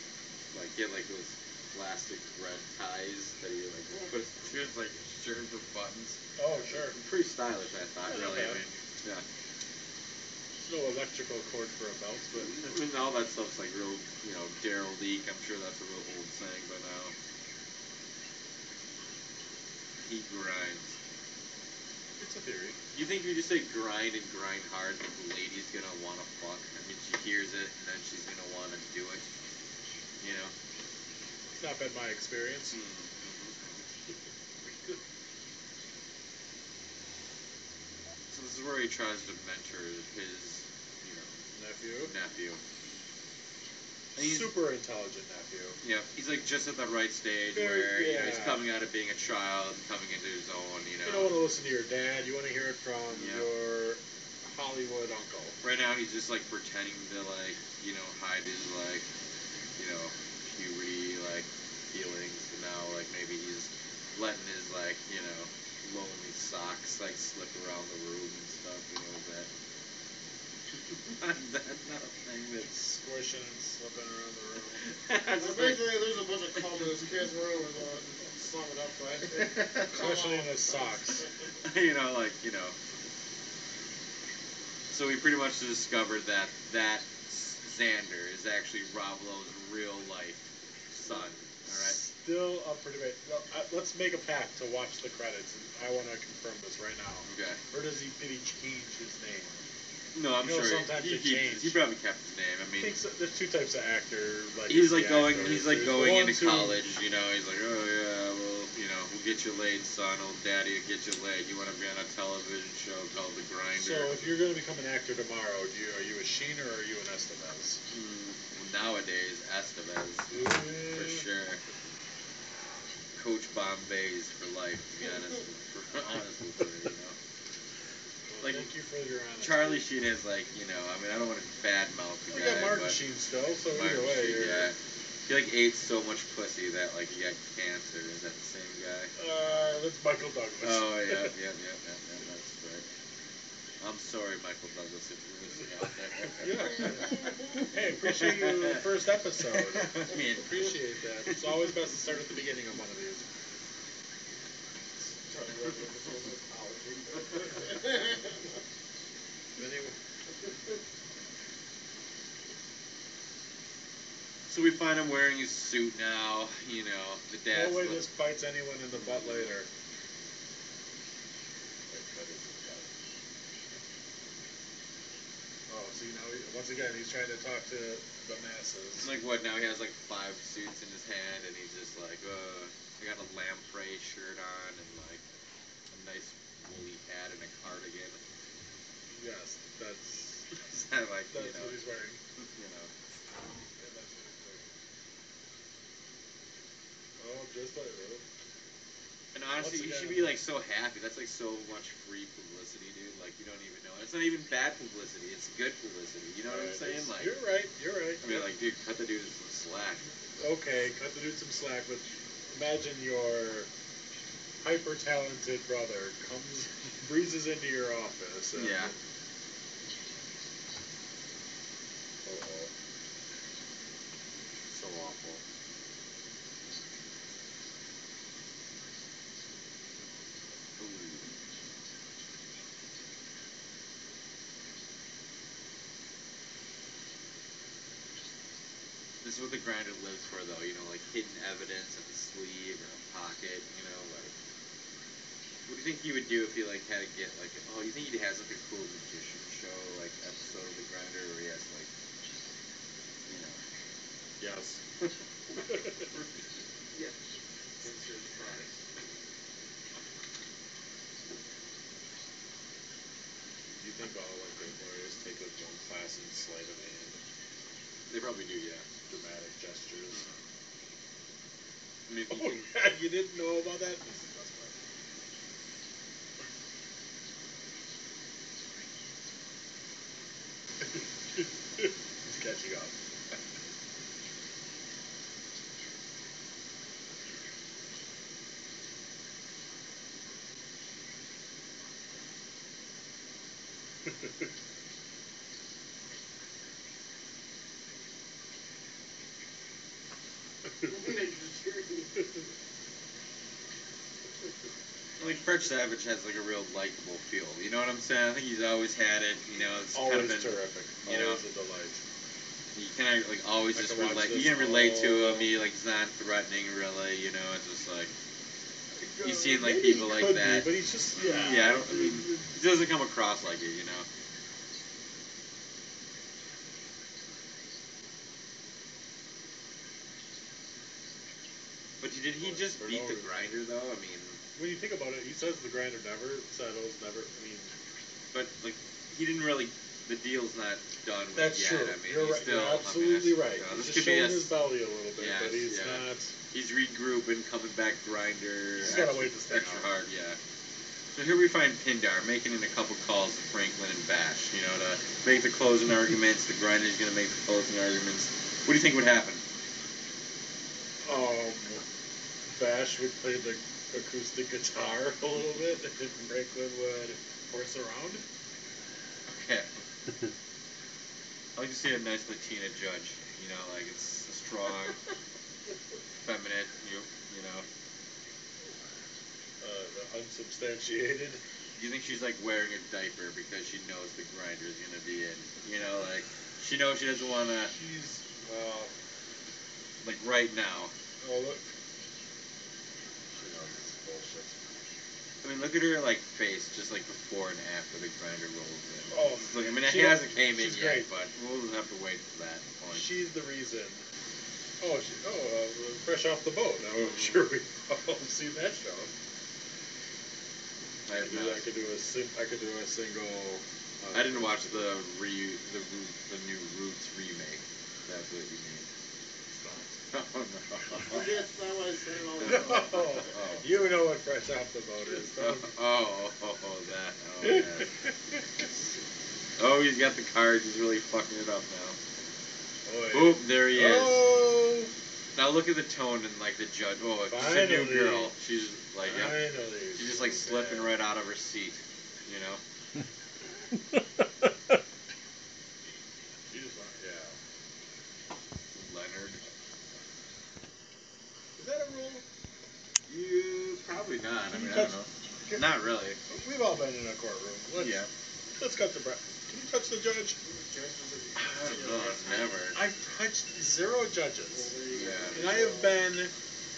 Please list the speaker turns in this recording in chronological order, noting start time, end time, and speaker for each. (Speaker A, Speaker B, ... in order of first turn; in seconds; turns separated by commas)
Speaker A: 0.5-9.2, Speaker B: 6.4-7.0, Speaker B: 8.0-8.6, Speaker B: 10.6-12.7, Speaker A: 12.4-17.1, Speaker A: 20.0-20.9, Speaker B: 22.2-22.8, Speaker A: 22.9-29.2, Speaker A: 30.2-30.5, Speaker B: 31.5-32.8, Speaker A: 32.7-33.8, Speaker A: 38.3-41.3, Speaker B: 41.5-42.1, Speaker A: 42.0-42.6, Speaker A: 44.1-44.5, Speaker B: 44.1-45.8, Speaker A: 45.8-51.3, Speaker B: 47.5-48.6, Speaker B: 51.0-55.5, Speaker A: 53.1-53.5, Speaker A: 55.6-59.0, Speaker A: 59.8-69.5, Speaker A: 71.1-72.7, Speaker B: 72.6-74.8, Speaker A: 75.0-76.0, Speaker C: 75.3-81.2, Speaker B: 79.9-81.2, Speaker A: 81.6-82.7, Speaker A: 84.9-92.0, Speaker B: 91.7-99.6, Speaker A: 97.2-97.6, Speaker A: 100.1-103.0, Speaker B: 100.4-101.8, Speaker B: 102.8-106.8, Speaker A: 104.7-114.2, Speaker B: 113.8-117.8, Speaker A: 117.9-121.6, Speaker B: 120.3-121.3, Speaker A: 123.2-127.2, Speaker B: 128.3-129.8, Speaker A: 128.4-128.7, Speaker A: 129.4-133.0, Speaker B: 132.3-134.7, Speaker A: 133.7-139.1, Speaker B: 139.2-141.3, Speaker A: 140.6-142.8, Speaker A: 143.8-148.8, Speaker B: 146.3-153.2, Speaker A: 149.5-150.7, Speaker C: 155.2-158.3, Speaker B: 159.6-159.9, Speaker A: 164.5-168.0, Speaker B: 167.5-169.7, Speaker A: 168.9-169.5, Speaker B: 171.9-172.9, Speaker B: 175.7-179.1, Speaker A: 179.0-185.2, Speaker A: 185.9-188.2, Speaker B: 189.1-190.5, Speaker A: 190.6-191.8, Speaker B: 191.3-192.2, Speaker A: 192.4-192.9, Speaker B: 193.8-194.7, Speaker B: 197.2-198.2, Speaker A: 199.3-207.3, Speaker B: 199.6-200.4, Speaker B: 206.4-208.5, Speaker A: 208.2-210.1, Speaker B: 210.4-213.7, Speaker B: 214.6-218.9, Speaker A: 218.6-218.9, Speaker B: 222.2-222.7, Speaker B: 224.7-225.4, Speaker A: 230.8-231.3, Speaker A: 239.2-244.3, Speaker A: 245.7-251.9, Speaker A: 253.3-253.6, Speaker B: 254.4-254.8, Speaker C: 257.8-258.6, Speaker B: 263.8-267.2, Speaker A: 268.1-268.9, Speaker B: 269.1-270.2, Speaker A: 272.1-272.7, Speaker B: 272.3-274.7, Speaker B: 281.4-282.9, Speaker C: 300.8-302.3, Speaker A: 305.2-311.4, Speaker B: 309.9-312.0, Speaker A: 312.7-318.1, Speaker B: 313.7-315.5, Speaker B: 319.0-322.5, Speaker A: 319.2-324.1, Speaker A: 332.0-334.4, Speaker B: 332.4-333.3, Speaker B: 334.6-337.7, Speaker A: 338.3-344.6, Speaker B: 341.3-346.3, Speaker A: 345.2-350.4, Speaker B: 348.8-349.9, Speaker A: 351.1-359.4, Speaker B: 361.0-361.8, Speaker B: 362.6-368.2, Speaker A: 369.3-369.7, Speaker A: 371.5-375.0, Speaker A: 376.2-377.6, Speaker B: 379.6-381.4, Speaker A: 381.8-387.7, Speaker B: 387.7-388.9, Speaker A: 390.0-390.9, Speaker B: 391.2-391.6, Speaker B: 393.3-394.7, Speaker A: 395.4-403.1, Speaker B: 399.1-401.1, Speaker B: 402.9-404.0, Speaker B: 404.8-409.1, Speaker A: 411.1-411.6, Speaker B: 411.2-414.9, Speaker A: 414.1-418.9, Speaker B: 419.5-419.9, Speaker A: 420.1-421.3, Speaker C: 421.1-423.2, Speaker A: 422.4-423.9, Speaker B: 422.4-425.7, Speaker A: 425.4-427.9, Speaker B: 427.4-428.4, Speaker A: 429.6-431.9, Speaker B: 432.9-434.9, Speaker A: 433.1-434.3, Speaker A: 435.3-442.6, Speaker B: 437.3-438.3, Speaker B: 439.0-440.9, Speaker B: 443.9-444.5, Speaker B: 446.5-447.4, Speaker A: 448.7-449.4, Speaker B: 451.6-452.2, Speaker A: 453.1-456.2, Speaker B: 454.5-455.6, Speaker B: 456.3-460.4, Speaker A: 457.8-458.1, Speaker C: 460.4-461.9, Speaker B: 461.4-464.8, Speaker A: 461.6-462.8, Speaker C: 464.5-466.0, Speaker A: 464.9-465.8, Speaker B: 465.3-466.3